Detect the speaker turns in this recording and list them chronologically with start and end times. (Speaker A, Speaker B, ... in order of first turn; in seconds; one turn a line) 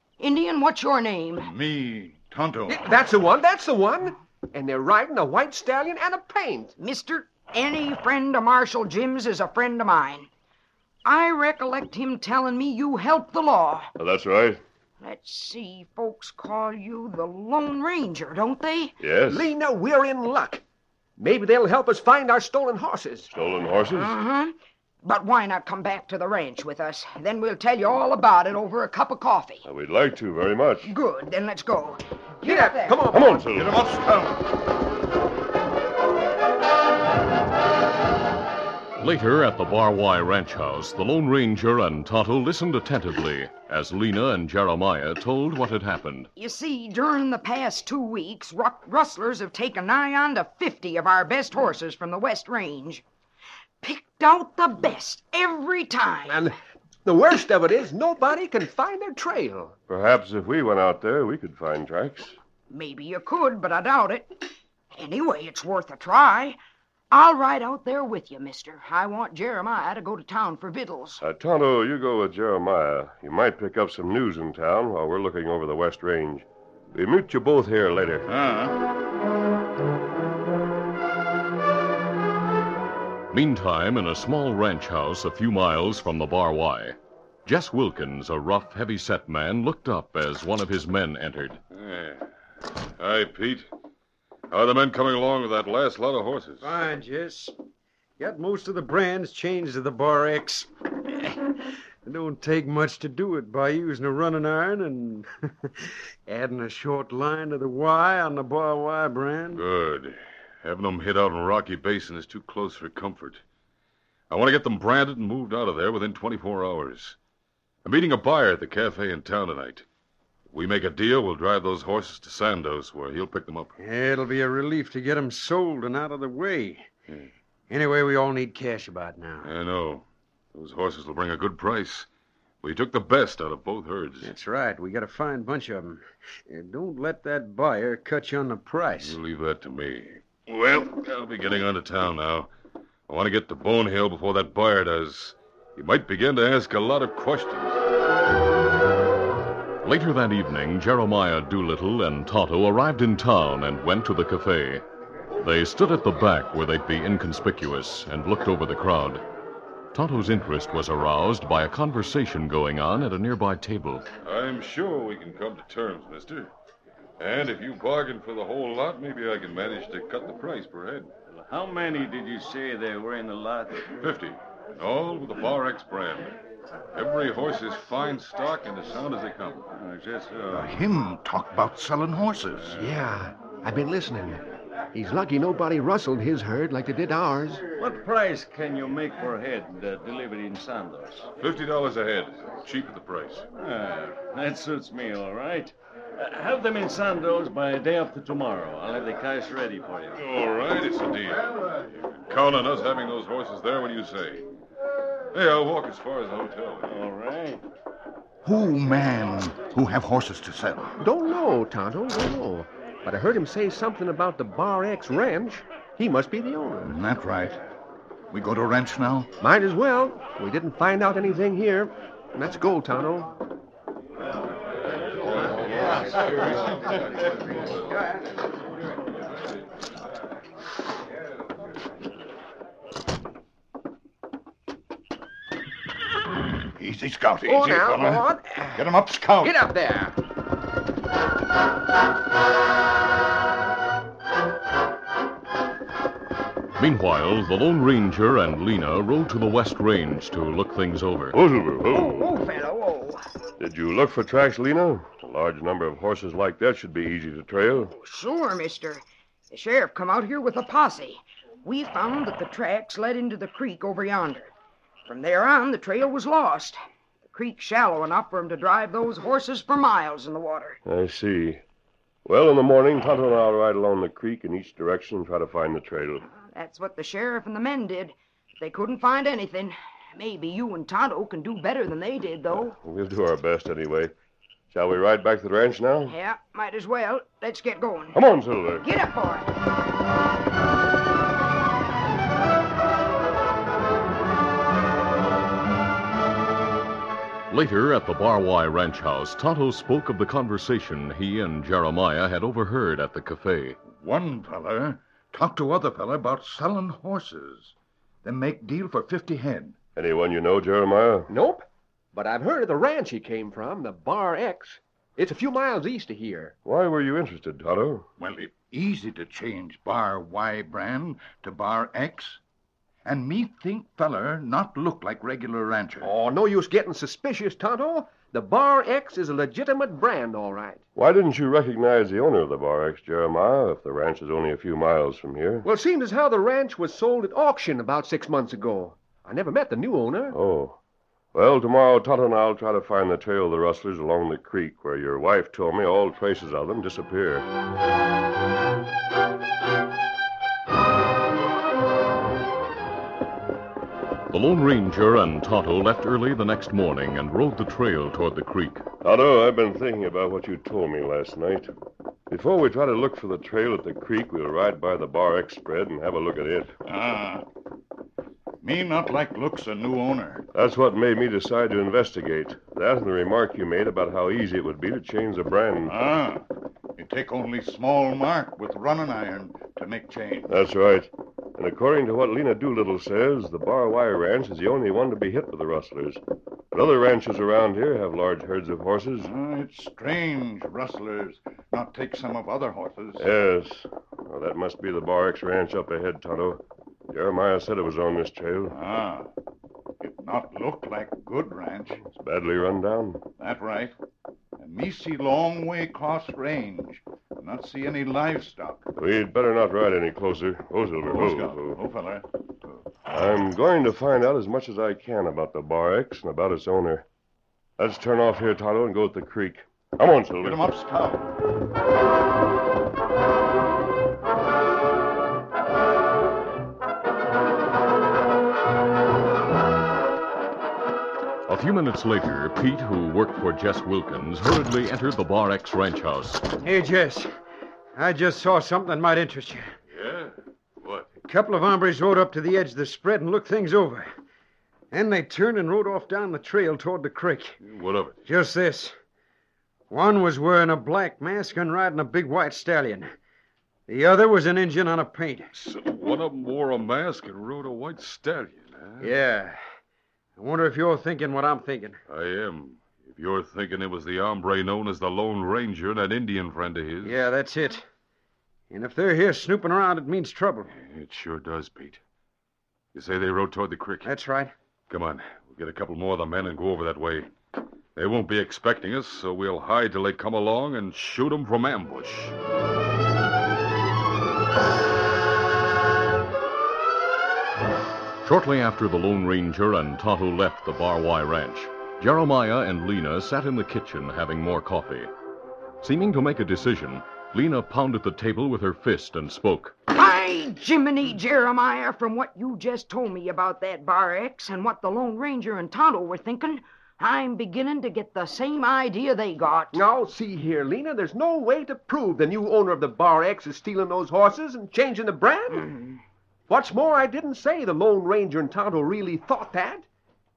Speaker A: 0.2-1.5
Speaker B: 1.4-2.9
Speaker C: 2.7-6.7
Speaker A: 6.8-10.3
Speaker A: 11.1-13.9
Speaker D: 14.0-14.6
Speaker A: 15.0-19.0
Speaker D: 19.0-19.5
Speaker C: 19.3-20.6
Speaker C: 21.2-23.3
Speaker D: 23.3-24.2
Speaker A: 23.9-29.6
Speaker D: 29.6-30.9
Speaker A: 30.9-33.0
Speaker C: 32.4-33.5
Speaker D: 33.1-33.8
Speaker B: 33.5-34.4
Speaker E: 39.0-46.3
Speaker A: 46.4-53.0
Speaker A: 53.8-56.4
Speaker C: 56.3-59.8
Speaker D: 59.9-62.4
Speaker A: 62.7-66.6
Speaker A: 67.1-71.2
Speaker D: 71.2-78.3
Speaker B: 78.3-78.8
Speaker E: 83.3-91.6
Speaker F: 91.7-92.3
Speaker F: 93.0-93.7
Speaker F: 94.5-96.7
Speaker G: 96.6-97.5
Speaker G: 98.2-101.4
Speaker G: 102.0-105.3
Speaker G: 106.3-109.6
Speaker F: 109.5-113.4
Speaker F: 114.3-117.2
Speaker F: 117.8-119.9
Speaker F: 120.5-123.7
Speaker G: 123.8-126.9
Speaker G: 127.7-129.5
Speaker F: 129.4-132.1
Speaker F: 132.6-134.3
Speaker G: 134.2-139.2
Speaker F: 139.0-142.5
Speaker F: 143.1-147.8
Speaker E: 149.8-154.8
Speaker E: 155.4-159.2
Speaker E: 159.9-164.1
Speaker F: 164.2-166.5
Speaker F: 167.2-171.1
Speaker H: 171.5-173.9
Speaker F: 173.9-176.3
Speaker F: 176.9-179.7
Speaker H: 179.7-180.8
Speaker B: 180.5-182.8
Speaker C: 182.8-184.4
Speaker C: 184.9-187.6
Speaker H: 187.8-191.3
Speaker F: 191.4-193.5
Speaker H: 193.6-200.2
Speaker F: 200.2-204.5
Speaker F: 205.3-207.0
Speaker H: 206.8-207.6
Speaker B: 208.4-211.0
Speaker C: 211.0-216.9
Speaker B: 216.8-217.6
Speaker B: 218.3-219.3
Speaker C: 219.4-223.3
Speaker F: 225.4-227.0
Speaker B: 236.8-239.6
Speaker C: 237.4-238.9
Speaker C: 239.4-240.2
Speaker E: 246.8-251.4
Speaker D: 251.3-252.4
Speaker A: 251.9-253.2
Speaker D: 253.6-257.9
Speaker A: 257.9-264.5
Speaker A: 265.1-266.8
Speaker A: 267.3-270.8
Speaker D: 270.9-271.6
Speaker D: 272.2-276.3
Speaker A: 276.3-282.8
Speaker D: 282.5-284.1
Speaker D: 284.7-286.1
Speaker A: 286.1-288.2
Speaker D: 288.1-288.9
Speaker A: 288.8-289.5
Speaker E: 297.5-303.8
Speaker B: 303.9-307.7
Speaker B: 308.2-309.8
Speaker D: 310.0-311.3
Speaker C: 311.3-311.6
Speaker C: 312.1-316.6
Speaker D: 316.6-318.1
Speaker B: 318.2-322.4
Speaker B: 323.1-326.1
Speaker C: 326.0-330.8
Speaker D: 331.0-335.7
Speaker C: 335.6-340.4
Speaker D: 340.3-340.8
Speaker D: 341.3-347.5
Speaker E: 354.3-358.9
Speaker D: 359.0-361.7
Speaker D: 362.3-366.7
Speaker B: 366.9-367.4
Speaker B: 368.6-370.5
Speaker D: 370.5-376.0
Speaker B: 375.9-376.4
Speaker B: 377.0-380.6
Speaker D: 380.5-389.3
Speaker B: 389.2-393.2
Speaker D: 393.2-398.8
Speaker B: 398.7-399.3
Speaker B: 400.0-402.0
Speaker D: 402.1-403.2
Speaker B: 403.4-403.9
Speaker B: 404.6-408.8
Speaker D: 409.0-411.8
Speaker B: 411.1-412.2
Speaker D: 413.1-417.1
Speaker D: 417.8-420.7
Speaker B: 420.4-421.3
Speaker E: 431.5-436.4
Speaker G: 436.6-437.3
Speaker G: 438.0-439.7
Speaker F: 439.9-441.1
Speaker G: 441.3-444.1
Speaker G: 444.9-447.6
Speaker F: 447.6-448.2
Speaker G: 448.2-448.9
Speaker G: 449.9-453.1
Speaker G: 453.9-455.5
Speaker F: 455.5-459.1
Speaker G: 459.0-459.6
Speaker G: 460.4-462.0
Speaker F: 462.1-467.2
Speaker G: 467.0-467.9
Speaker G: 468.7-470.7
Speaker F: 470.7-472.0
Speaker F: 472.9-474.1
Speaker G: 474.0-474.5
Speaker F: 474.9-477.3
Speaker F: 478.0-482.4
Speaker E: 488.2-495.1
Speaker E: 495.8-499.8
Speaker A: 499.9-509.8
Speaker C: 509.7-515.7
Speaker A: 515.5-516.0
Speaker C: 516.5-519.9